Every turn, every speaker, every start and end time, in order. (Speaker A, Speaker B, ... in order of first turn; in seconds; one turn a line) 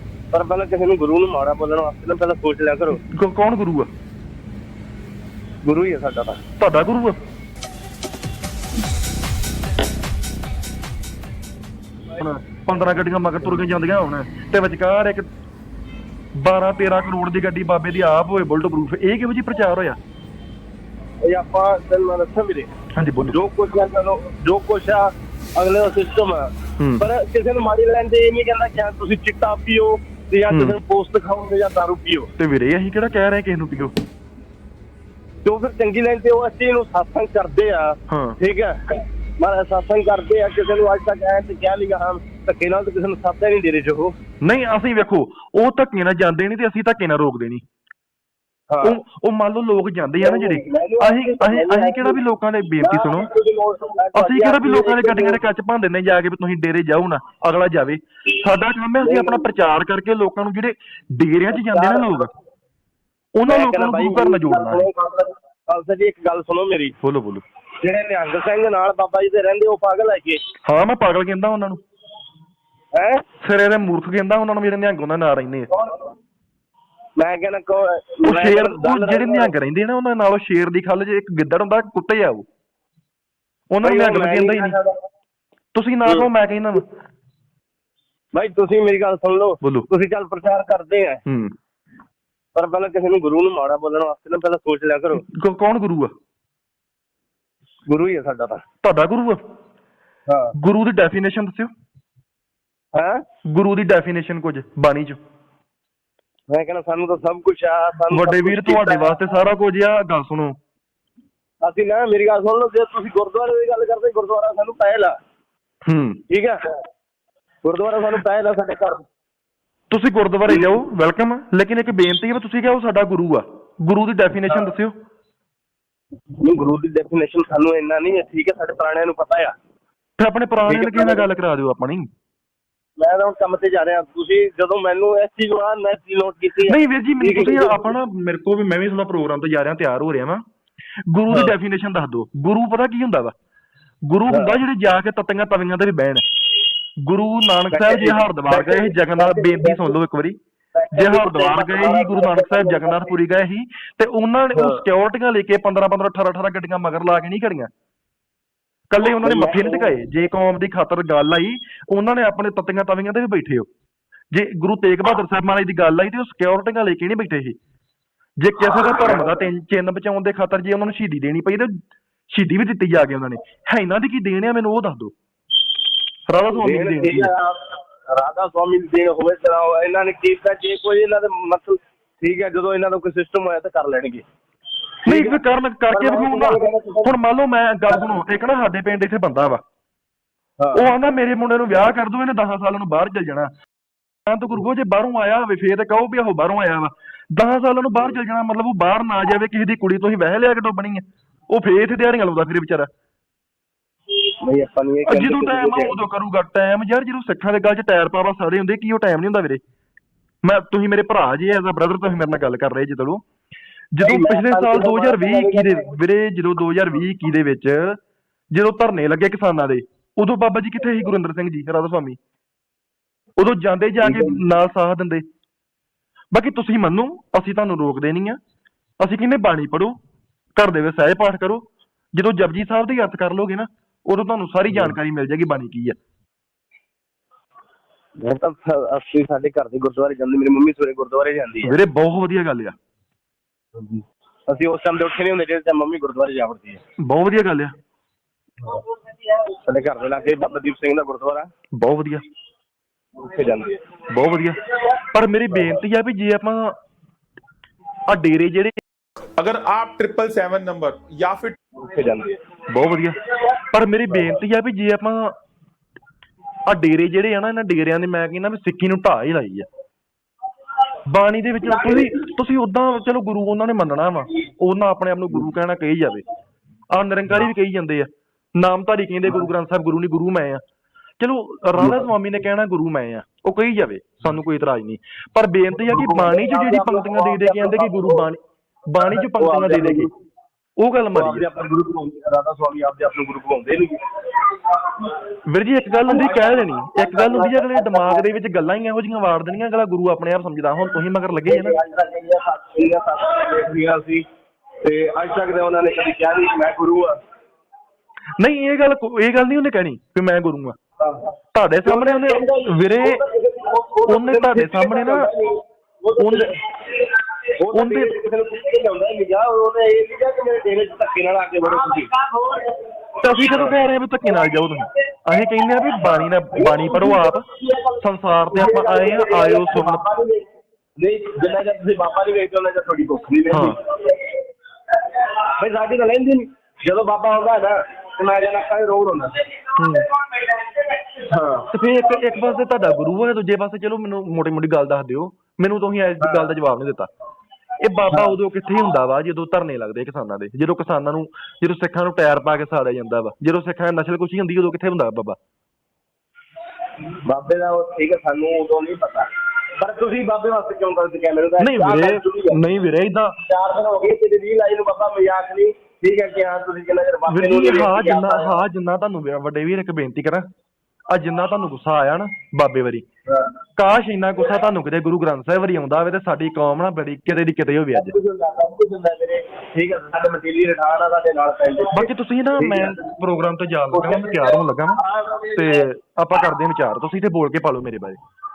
Speaker A: 0.3-3.0
Speaker B: 2.9-3.9
Speaker A: 5.6-6.4
Speaker B: 6.6-7.2
Speaker B: 12.1-15.2
Speaker B: 16.4-20.0
Speaker A: 21.2-22.7
Speaker B: 22.9-23.4
Speaker A: 23.3-32.3
Speaker B: 26.8-27.1
Speaker B: 30.5-30.8
Speaker B: 32.4-33.9
Speaker A: 35.5-44.1
Speaker B: 38.1-38.4
Speaker B: 44.4-47.6
Speaker A: 48.7-49.0
Speaker B: 48.8-53.3
Speaker A: 50.2-52.2
Speaker A: 52.8-55.4
Speaker B: 54.1-62.3
Speaker A: 59.0-59.5
Speaker A: 61.5-62.3
Speaker B: 63.4-64.9
Speaker A: 63.5-67.0
Speaker B: 67.0-67.4
Speaker A: 67.8-70.4
Speaker B: 70.7-71.8
Speaker A: 72.9-73.2
Speaker B: 73.4-75.7
Speaker A: 75.7-76.0
Speaker A: 77.2-79.5
Speaker B: 78.2-82.4
Speaker B: 83.7-84.8
Speaker A: 83.8-85.0
Speaker B: 85.7-86.8
Speaker A: 88.3-91.2
Speaker B: 89.6-89.9
Speaker B: 91.3-91.5
Speaker A: 92.5-95.2
Speaker B: 95.2-96.1
Speaker A: 97.9-98.6
Speaker B: 98.8-99.4
Speaker A: 100.3-100.5
Speaker B: 100.6-101.7
Speaker A: 102.9-103.2
Speaker B: 103.5-105.2
Speaker A: 106.5-109.2
Speaker B: 108.1-110.6
Speaker A: 111.6-115.2
Speaker B: 115.9-116.2
Speaker A: 116.3-116.6
Speaker A: 117.6-119.0
Speaker B: 119.9-124.9
Speaker A: 126.4-129.5
Speaker B: 130.2-132.1
Speaker A: 130.7-131.3
Speaker A: 133.0-137.9
Speaker B: 136.7-140.4
Speaker B: 141.1-143.3
Speaker A: 141.3-141.5
Speaker B: 144.1-146.2
Speaker A: 144.3-144.6
Speaker B: 147.0-150.4
Speaker A: 147.7-150.0
Speaker A: 150.8-153.1
Speaker B: 150.9-157.7
Speaker A: 154.6-154.8
Speaker B: 158.9-163.7
Speaker A: 159.2-159.9
Speaker B: 164.3-167.6
Speaker B: 168.4-171.7
Speaker A: 168.9-169.3
Speaker B: 172.3-175.1
Speaker B: 176.3-177.3
Speaker A: 176.5-184.2
Speaker A: 185.1-185.4
Speaker B: 185.1-189.6
Speaker A: 185.9-187.1
Speaker A: 190.6-190.9
Speaker B: 190.8-193.5
Speaker B: 194.3-202.9
Speaker A: 204.4-206.0
Speaker B: 205.1-209.6
Speaker B: 210.4-213.2
Speaker B: 213.9-218.0
Speaker A: 214.0-215.9
Speaker B: 218.5-222.2
Speaker B: 223.4-225.2
Speaker A: 224.0-224.4
Speaker B: 226.3-228.4
Speaker B: 229.0-229.9
Speaker B: 230.6-236.0
Speaker A: 238.2-241.7
Speaker B: 241.6-242.8
Speaker A: 243.8-246.8
Speaker B: 247.0-247.7
Speaker A: 248.6-251.5
Speaker B: 251.8-252.2
Speaker A: 253.2-253.8
Speaker B: 254.1-256.7
Speaker B: 258.1-258.7
Speaker C: 259.4-261.6
Speaker A: 261.8-262.4
Speaker B: 262.7-265.3
Speaker B: 266.7-269.7
Speaker B: 271.1-276.2
Speaker B: 276.9-280.6
Speaker B: 281.2-290.1
Speaker A: 281.8-282.1
Speaker A: 285.8-288.2
Speaker A: 289.1-290.1
Speaker B: 290.8-291.4
Speaker A: 291.1-295.0
Speaker B: 295.5-301.8
Speaker A: 296.1-298.2
Speaker A: 301.5-304.2
Speaker A: 304.8-307.2
Speaker B: 308.4-310.8
Speaker A: 311.0-311.3
Speaker B: 311.5-313.2
Speaker A: 311.9-322.9
Speaker B: 314.1-315.3
Speaker B: 316.2-316.5
Speaker B: 317.7-318.1
Speaker B: 323.2-327.4
Speaker A: 323.4-323.7
Speaker A: 326.1-330.5
Speaker B: 328.0-330.0
Speaker A: 331.0-334.3
Speaker A: 335.1-339.6
Speaker B: 339.8-340.1
Speaker A: 340.4-341.7
Speaker B: 341.7-347.1
Speaker A: 346.2-346.5
Speaker B: 347.8-355.4
Speaker A: 357.2-359.3
Speaker A: 359.8-362.6
Speaker B: 361.6-363.4
Speaker A: 363.5-368.6
Speaker B: 367.3-370.5
Speaker B: 371.1-373.0
Speaker B: 373.8-378.1
Speaker A: 377.9-383.0
Speaker B: 381.9-385.0
Speaker A: 383.9-385.8
Speaker B: 385.6-388.2